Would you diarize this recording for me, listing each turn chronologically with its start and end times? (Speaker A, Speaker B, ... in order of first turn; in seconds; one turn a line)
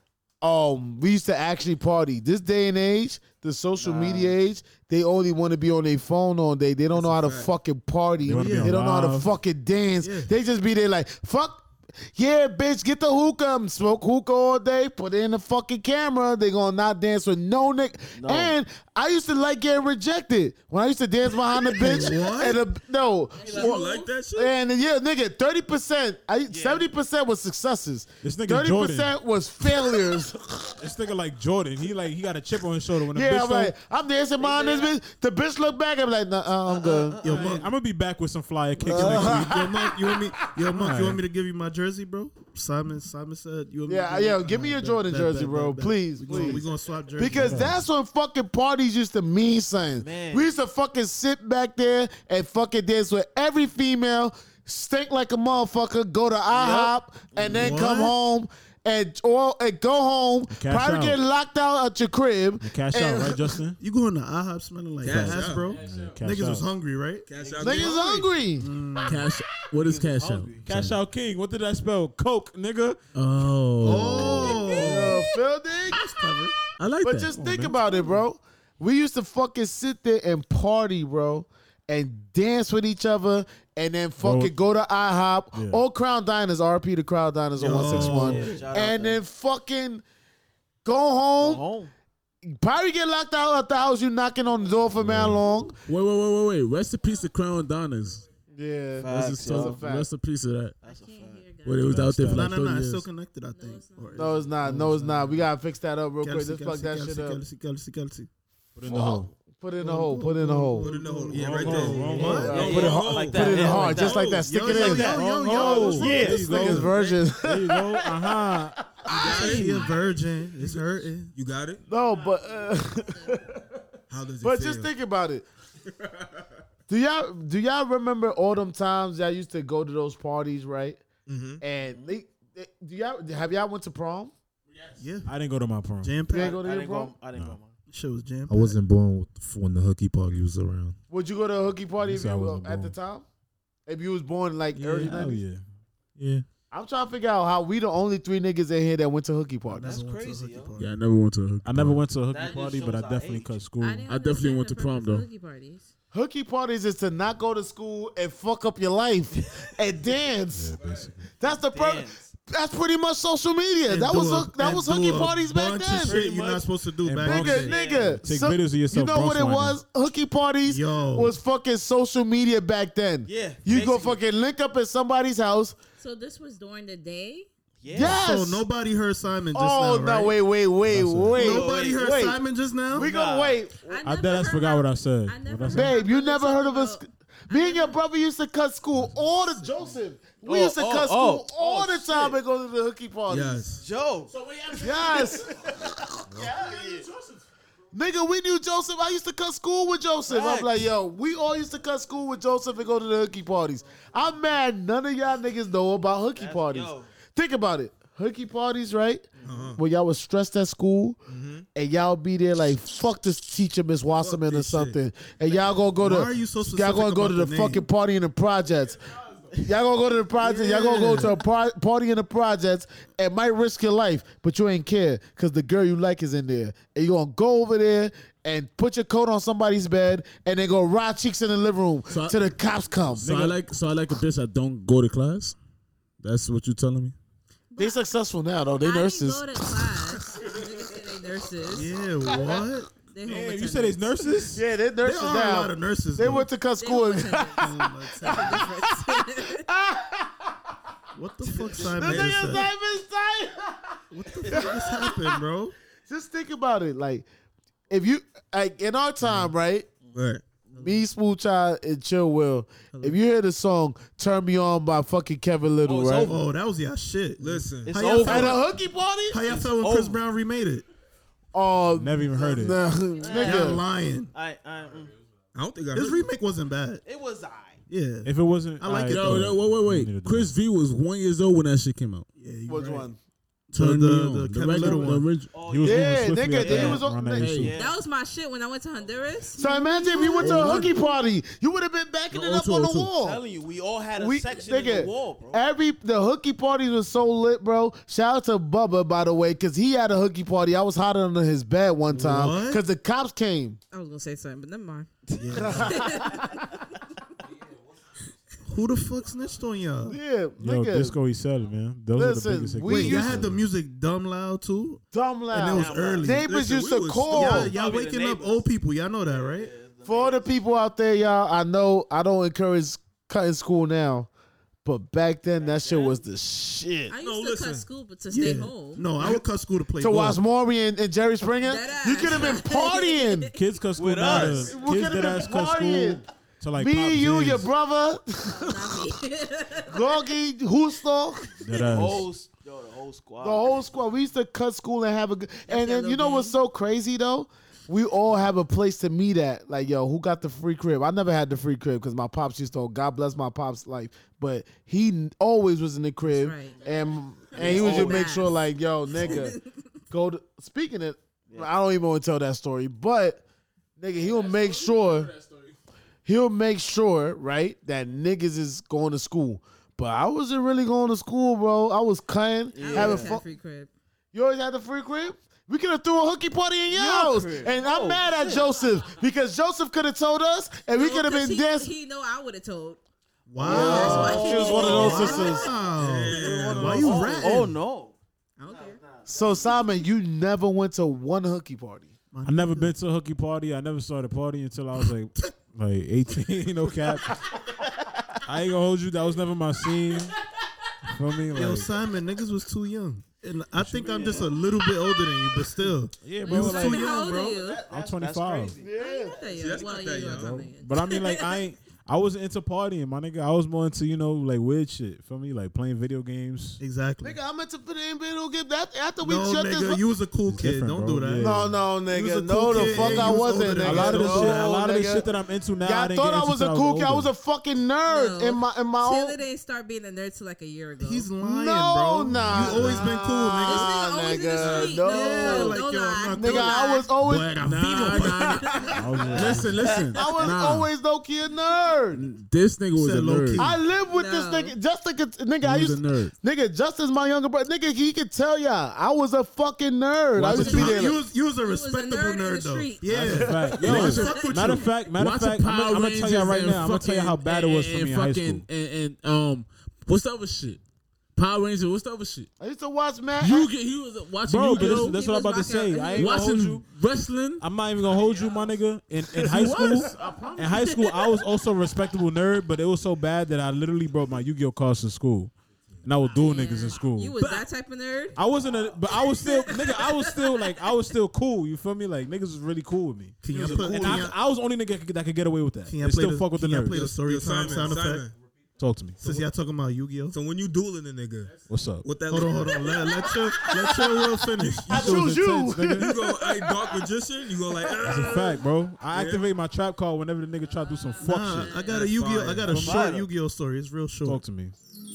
Speaker A: 0.4-30.7
Speaker B: 3.8-4.3
Speaker C: 6.9-7.5
Speaker D: 8.2-9.3
Speaker E: 8.3-8.8
Speaker E: 10.0-10.3
Speaker B: 18.1-18.5
Speaker E: 21.7-22.6
Speaker F: 23.3-24.1
Speaker C: 23.4-24.5
Speaker B: 26.5-26.9
Speaker D: 28.2-29.1
Speaker D: 30.8-33.7
Speaker A: 33.1-37.2
Speaker B: 34.4-35.0
Speaker B: 36.7-37.6
Speaker E: 37.2-37.7
Speaker D: 37.2-39.7
Speaker A: 38.8-40.0
Speaker E: 38.8-47.7
Speaker D: 40.7-41.2
Speaker A: 43.9-46.6
Speaker B: 46.3-46.8
Speaker A: 47.1-63.6
Speaker D: 47.3-47.8
Speaker B: 50.0-50.5
Speaker B: 56.5-57.6
Speaker E: 57.4-58.1
Speaker D: 60.5-61.2
Speaker D: 62.6-63.8
Speaker E: 63.8-67.3
Speaker C: 65.0-65.7
Speaker D: 65.1-66.7
Speaker G: 65.7-66.2
Speaker C: 67.2-68.2
Speaker B: 67.3-68.3
Speaker A: 67.6-68.7
Speaker E: 68.6-69.3
Speaker G: 69.0-71.0
Speaker B: 69.8-70.8
Speaker D: 70.6-73.0
Speaker G: 73.1-74.6
Speaker E: 73.8-75.3
Speaker A: 74.2-76.0
Speaker E: 75.9-76.6
Speaker G: 76.8-77.4
Speaker A: 77.0-90.0
Speaker D: 77.3-77.8
Speaker D: 84.2-84.6
Speaker D: 85.5-85.8
Speaker E: 87.6-88.7
Speaker B: 87.6-89.2
Speaker D: 88.0-88.3
Speaker A: 90.8-91.7
Speaker B: 91.3-91.9
Speaker A: 92.4-95.8
Speaker D: 95.0-95.4
Speaker G: 95.9-98.2
Speaker A: 98.5-100.1
Speaker B: 99.0-99.8
Speaker G: 99.1-100.8
Speaker B: 100.8-101.5
Speaker F: 100.8-102.2
Speaker G: 101.6-103.0
Speaker D: 101.8-102.5
Speaker E: 102.3-104.7
Speaker F: 103.5-104.5
Speaker A: 104.2-107.4
Speaker D: 104.6-105.4
Speaker E: 106.2-108.3
Speaker D: 108.8-109.3
Speaker A: 108.8-111.0
Speaker E: 109.8-113.0
Speaker C: 110.8-114.5
Speaker D: 111.3-112.6
Speaker A: 112.1-118.1
Speaker B: 112.5-116.6
Speaker E: 114.1-116.8
Speaker D: 115.0-118.8
Speaker C: 116.9-117.2
Speaker A: 119.0-119.6
Speaker C: 119.0-119.9
Speaker E: 119.2-121.3
Speaker C: 120.6-121.8
Speaker A: 121.9-123.7
Speaker C: 124.1-124.9
Speaker A: 124.4-125.4
Speaker A: 126.9-131.0
Speaker C: 131.2-131.6
Speaker A: 131.6-134.3
Speaker B: 131.8-132.1
Speaker E: 135.0-135.3
Speaker D: 135.2-136.1
Speaker E: 136.0-136.6
Speaker A: 136.3-137.1
Speaker B: 136.3-137.8
Speaker E: 137.9-138.8
Speaker H: 138.5-140.9
Speaker A: 141.1-143.2
Speaker D: 142.0-142.9
Speaker A: 143.9-145.4
Speaker D: 144.8-145.6
Speaker H: 146.2-146.4
Speaker A: 146.7-150.0
Speaker E: 149.7-150.9
Speaker B: 149.8-150.8
Speaker G: 150.8-152.0
Speaker D: 151.6-154.1
Speaker B: 152.3-153.6
Speaker F: 153.8-155.9
Speaker G: 154.1-155.2
Speaker A: 156.1-160.8
Speaker D: 160.5-161.2
Speaker A: 161.4-166.2
Speaker B: 161.4-162.3
Speaker E: 163.9-167.8
Speaker B: 166.0-166.7
Speaker D: 167.0-169.8
Speaker A: 167.2-175.8
Speaker B: 167.4-168.2
Speaker E: 170.6-171.3
Speaker B: 173.2-174.2
Speaker F: 176.0-177.5
Speaker B: 177.8-178.2
Speaker A: 177.9-178.6
Speaker E: 177.9-180.4
Speaker D: 177.9-178.2
Speaker A: 179.5-182.4
Speaker D: 180.9-181.6
Speaker E: 181.3-183.1
Speaker B: 181.4-182.1
Speaker B: 182.9-183.6
Speaker A: 182.9-183.8
Speaker F: 183.9-188.0
Speaker D: 184.0-186.0
Speaker A: 185.7-193.7
Speaker B: 190.4-192.4
Speaker C: 193.3-193.8
Speaker B: 193.7-194.3
Speaker G: 194.3-195.2
Speaker A: 194.7-196.6
Speaker B: 194.9-197.1
Speaker A: 197.9-211.2
Speaker B: 200.2-200.9
Speaker B: 206.3-207.1
Speaker C: 209.4-209.8
Speaker C: 211.3-211.7
Speaker A: 211.7-219.0
Speaker C: 214.2-215.0
Speaker E: 216.0-217.8
Speaker A: 219.5-233.4
Speaker E: 220.4-221.3
Speaker G: 232.1-232.5
Speaker G: 233.2-235.6
Speaker D: 233.2-233.6
Speaker G: 236.2-237.2
Speaker F: 237.7-238.0
Speaker A: 237.8-239.7
Speaker F: 238.8-241.9
Speaker E: 241.7-242.9
Speaker F: 243.1-244.1
Speaker D: 243.2-244.6
Speaker A: 244.5-250.5
Speaker E: 245.0-246.5
Speaker F: 246.8-249.7
Speaker E: 247.6-248.8
Speaker E: 251.1-252.7
Speaker A: 251.8-255.4
Speaker C: 251.9-252.6
Speaker E: 254.1-255.7
Speaker B: 254.4-254.7
Speaker A: 256.1-257.2
Speaker A: 257.9-259.9
Speaker C: 260.1-260.4
Speaker B: 260.7-261.1
Speaker A: 260.8-266.4
Speaker B: 265.8-266.4
Speaker E: 266.1-268.7
Speaker C: 267.4-268.2
Speaker B: 267.8-268.6
Speaker A: 268.2-269.4
Speaker E: 269.3-270.8
Speaker B: 269.4-270.2
Speaker A: 271.5-273.8
Speaker D: 271.9-272.8
Speaker B: 273.2-275.1
Speaker E: 273.3-274.3
Speaker C: 275.5-276.3
Speaker E: 275.9-277.0
Speaker B: 277.0-277.8
Speaker E: 277.9-279.6
Speaker D: 278.2-280.6
Speaker G: 279.1-282.3
Speaker E: 282.3-283.1
Speaker A: 282.7-283.2
Speaker E: 283.7-285.3
Speaker G: 283.7-285.5
Speaker B: 285.5-288.0
Speaker D: 285.6-287.7
Speaker A: 285.8-287.6
Speaker G: 287.4-287.7
Speaker F: 287.7-290.9
Speaker A: 289.6-293.4
Speaker G: 290.4-290.9
Speaker B: 293.1-295.6
Speaker A: 294.1-303.8
Speaker E: 302.1-302.8
Speaker F: 303.9-306.6
Speaker B: 305.3-305.7
Speaker E: 305.4-306.1
Speaker A: 305.5-306.6
Speaker E: 308.6-310.2
Speaker A: 310.1-311.1
Speaker D: 310.6-313.6
Speaker A: 312.1-313.4
Speaker E: 312.8-316.5
Speaker A: 315.1-317.7
Speaker B: 315.6-316.4
Speaker C: 316.3-317.7
Speaker E: 317.3-319.7
Speaker B: 317.6-318.7
Speaker B: 319.2-320.6
Speaker A: 320.0-324.3
Speaker A: 324.8-327.1
Speaker B: 325.6-326.2
Speaker F: 327.1-329.0
Speaker C: 327.2-327.9
Speaker E: 328.3-330.4
Speaker A: 330.0-333.5
Speaker F: 331.6-333.5
Speaker D: 333.5-337.7
Speaker B: 333.9-334.8
Speaker A: 334.2-336.2
Speaker A: 336.8-339.0
Speaker F: 338.5-340.2
Speaker A: 339.9-341.5
Speaker D: 341.6-342.3
Speaker F: 341.7-342.1
Speaker B: 341.8-343.9
Speaker A: 343.4-359.6
Speaker F: 345.7-346.6
Speaker F: 356.3-356.8
Speaker B: 357.5-358.4
Speaker F: 357.6-358.5
Speaker F: 359.1-359.9
Speaker A: 360.1-363.4
Speaker A: 364.0-365.3
Speaker A: 366.2-373.4
Speaker B: 372.7-373.4
Speaker F: 372.8-373.9
Speaker A: 374.3-381.9
Speaker B: 376.9-378.6
Speaker F: 380.9-383.0
Speaker E: 383.5-387.8
Speaker B: 383.6-385.6
Speaker F: 383.6-385.7
Speaker A: 383.6-385.7
Speaker C: 385.9-387.3
Speaker B: 386.2-389.9
Speaker F: 388.6-389.0
Speaker A: 389.2-392.1
Speaker E: 392.3-392.9
Speaker D: 392.4-397.5
Speaker B: 397.8-398.4
Speaker D: 398.4-400.4
Speaker D: 401.0-401.9
Speaker E: 401.5-407.7
Speaker D: 403.8-404.3
Speaker B: 404.0-404.6
Speaker D: 406.2-407.2
Speaker B: 406.2-409.8
Speaker F: 406.4-407.8
Speaker D: 407.9-408.7
Speaker A: 408.8-409.5
Speaker F: 409.0-411.6
Speaker C: 409.5-410.7
Speaker D: 410.3-416.8
Speaker E: 416.8-417.4
Speaker A: 417.2-420.0
Speaker E: 419.2-424.8
Speaker D: 420.5-421.8
Speaker A: 421.4-425.3
Speaker D: 422.7-427.3
Speaker A: 425.8-429.4
Speaker F: 428.1-431.3
Speaker E: 431.0-434.1
Speaker A: 431.4-435.8
Speaker D: 432.3-432.9
Speaker F: 432.7-437.1
Speaker C: 434.6-435.0
Speaker E: 434.7-436.9
Speaker A: 436.4-442.2
Speaker G: 437.2-440.9
Speaker E: 437.7-438.4
Speaker F: 437.9-439.2
Speaker D: 438.9-439.8
Speaker G: 442.1-443.7
Speaker E: 442.9-443.8
Speaker A: 443.6-451.2
Speaker F: 444.1-444.7
Speaker G: 445.6-446.3
Speaker G: 450.4-450.7
Speaker E: 450.4-454.9
Speaker F: 451.6-454.9
Speaker D: 453.1-458.6
Speaker G: 453.7-454.5
Speaker G: 455.0-460.8
Speaker G: 461.3-462.5
Speaker A: 462.6-463.7
Speaker G: 463.4-465.2
Speaker D: 464.4-466.9
Speaker F: 464.8-466.5
Speaker G: 466.1-467.6
Speaker D: 467.6-475.5
Speaker G: 468.2-468.6
Speaker G: 469.4-471.2
Speaker D: 476.0-477.4
Speaker F: 476.3-478.4
Speaker D: 478.4-487.0
Speaker F: 479.3-480.7
Speaker E: 483.4-484.4
Speaker C: 483.6-484.2
Speaker E: 485.9-488.3
Speaker C: 486.8-488.3
Speaker D: 488.8-489.2
Speaker E: 489.2-490.4
Speaker C: 490.3-493.6
Speaker D: 491.7-492.1
Speaker E: 492.3-495.0
Speaker A: 493.7-494.2
Speaker C: 494.6-495.2
Speaker D: 494.9-496.1
Speaker A: 494.9-496.7
Speaker C: 495.9-499.4
Speaker D: 498.0-501.8
Speaker E: 501.2-504.4
Speaker F: 501.3-502.0
Speaker C: 501.8-502.9
Speaker D: 502.6-503.1
Speaker B: 502.7-503.3
Speaker D: 504.2-504.7